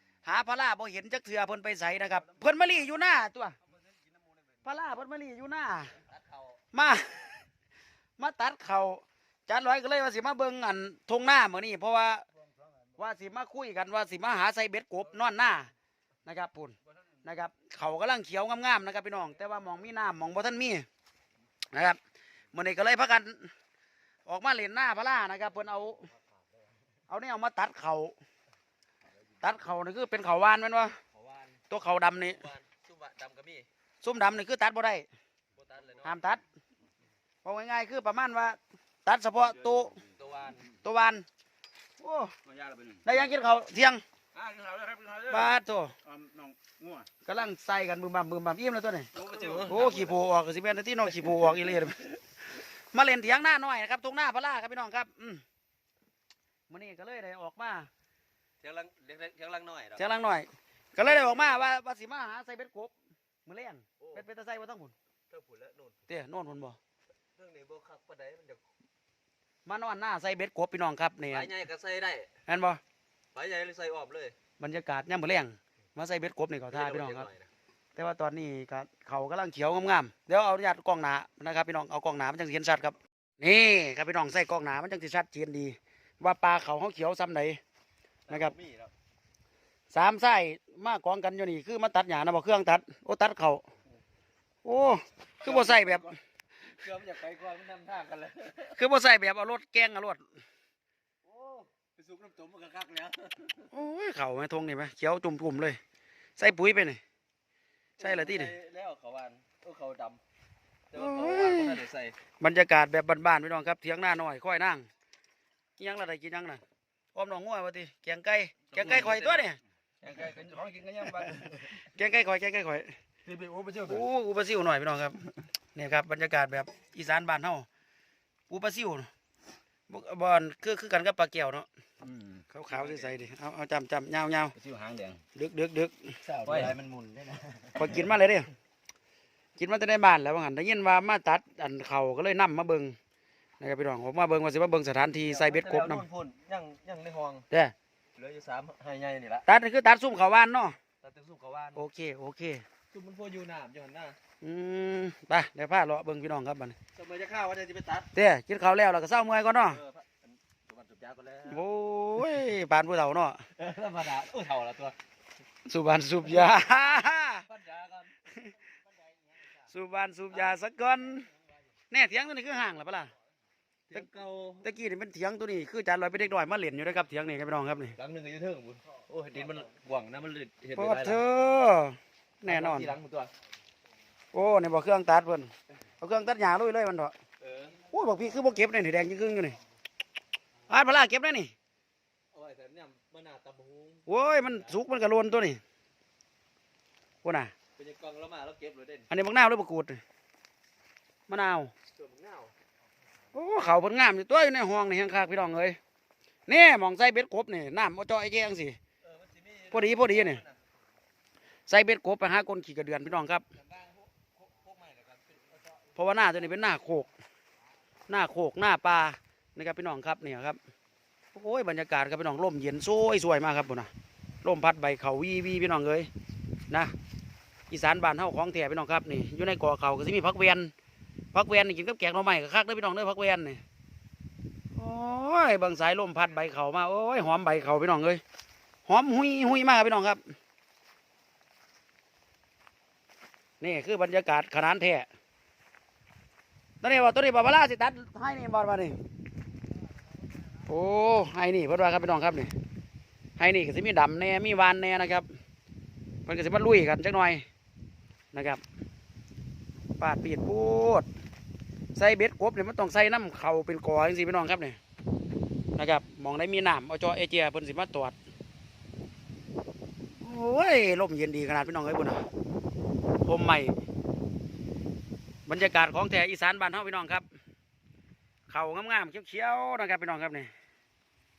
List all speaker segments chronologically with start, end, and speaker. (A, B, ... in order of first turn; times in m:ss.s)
0:00.2-0:03.6 A
0:03.7-0:04.2 B
0:04.6-0:06.0 A
0:06.0-0:06.6 B
0:06.7-0:07.4 A
0:08.2-0:12.2 A
0:13.0-0:15.7 A
0:16.2-0:20.8 A
0:21.7-0:22.0 A
0:22.5-0:23.5 A
0:24.2-0:26.1 A
0:25.9-0:26.4 B
0:27.1-0:28.2 A
0:29.4-0:31.0 A
0:31.1-0:31.6 B
0:31.7-0:32.4 A
0:32.2-0:33.7 B
0:34.0-0:35.1 A
0:35.6-0:36.4 B
0:36.0-0:36.4 A
0:37.4-0:40.0 A
0:40.0-0:40.7 B
0:40.8-0:41.2 A
0:42.0-0:42.3 A
0:42.4-0:43.0 B
0:43.0-0:44.0 A
0:44.3-0:45.5 B
0:44.7-0:45.2 C
0:45.3-0:46.0 A
0:46.0-0:47.1 C
0:47.2-0:49.1 A
0:49.1-0:50.2 B
0:49.6-0:55.4 A
0:56.7-0:57.9 A
0:58.6-1:00.0 B
1:00.0-1:02.9 A
1:01.0-1:01.6 B
1:03.4-1:04.9 A
1:04.0-1:04.2 B
1:05.3-1:06.0 B
1:06.1-1:06.8 A
1:07.4-1:08.6 B
1:09.6-1:11.5 A
1:11.3-1:12.3 B
1:12.5-1:12.8 A
1:13.3-1:14.4 B
1:14.6-1:17.3 A
1:16.7-1:17.5 B
1:18.0-1:27.6 A
1:28.3-1:28.9 B
1:28.3-1:28.5 A
1:29.9-1:33.6 A
1:34.6-1:36.1 A
1:35.4-1:38.8 B
1:38.7-1:40.2 A
1:41.2-1:43.7 B
1:43.7-1:45.8 A
1:46.4-1:47.0 A
1:48.0-1:50.2 B
1:48.0-1:48.5 A
1:50.9-1:52.2 B
1:50.9-1:51.8 A
1:52.4-1:54.8 A
1:55.8-1:56.6 A
1:57.1-1:59.6 A
1:58.7-1:59.5 B
2:00.0-2:01.8 B
2:01.8-2:02.9 A
2:03.3-2:04.0 C
2:03.8-2:07.6 A
2:08.5-2:09.1 A
2:09.9-2:11.7 A
2:12.0-2:12.4 C
2:12.5-2:14.6 A
2:12.7-2:13.2 B
2:14.6-2:15.2 C
2:14.8-2:15.2 B
2:15.3-2:16.7 A
2:16.2-2:18.0 B
2:17.8-2:18.5 A
2:19.6-2:22.9 A
2:23.6-2:26.0 A
2:25.2-2:27.5 B
2:28.2-2:29.5 B
2:29.5-2:30.8 A
2:31.0-2:31.8 B
2:31.7-2:32.6 A
2:32.9-2:34.2 B
2:34.4-2:36.8 A
2:36.9-2:38.1 B
2:38.1-2:39.8 A
2:39.6-2:41.6 B
2:41.5-2:43.4 A
2:43.6-2:45.0 B
2:45.6-2:47.4 A
2:47.2-2:48.4 B
2:49.1-2:49.6 B
2:49.7-2:51.3 A
2:50.3-2:50.6 B
2:51.9-2:53.1 A
2:53.9-2:54.7 B
2:54.6-2:58.0 A
2:58.0-3:01.2 B
3:00.8-3:02.9 A
3:02.4-3:03.3 B
3:04.3-3:07.1 A
3:07.4-3:07.9 B
3:07.8-3:09.6 A
3:10.7-3:11.5 A
3:12.3-3:14.8 B
3:14.1-3:15.6 A
3:17.2-3:17.5 A
3:17.8-3:19.1 B
3:19.1-3:20.0 A
3:21.3-3:21.7 A
3:22.0-3:22.5 B
3:23.3-3:25.8 A
3:26.5-3:28.8 A
3:29.0-3:30.6 B
3:29.7-3:30.4 A
3:31.7-3:33.4 A
3:33.5-3:35.8 B
3:35.9-3:37.1 A
3:38.1-3:40.6 A
3:41.3-3:43.9 A
3:44.4-3:46.1 A
3:47.7-3:50.7 A
3:51.3-3:53.6 A
3:54.7-3:58.2 A
3:58.8-4:00.2 A
4:03.6-4:05.1 A
4:06.8-4:09.0 A
4:10.6-4:12.5 A
4:13.4-4:15.3 A
4:16.2-4:17.4 A
4:18.3-4:18.6 A
4:20.0-4:21.1 A
4:21.9-4:24.8 A
4:25.8-4:28.2 A
4:30.2-4:32.2 A
4:33.2-4:33.8 A
4:35.5-4:37.2 A
4:38.5-4:40.5 A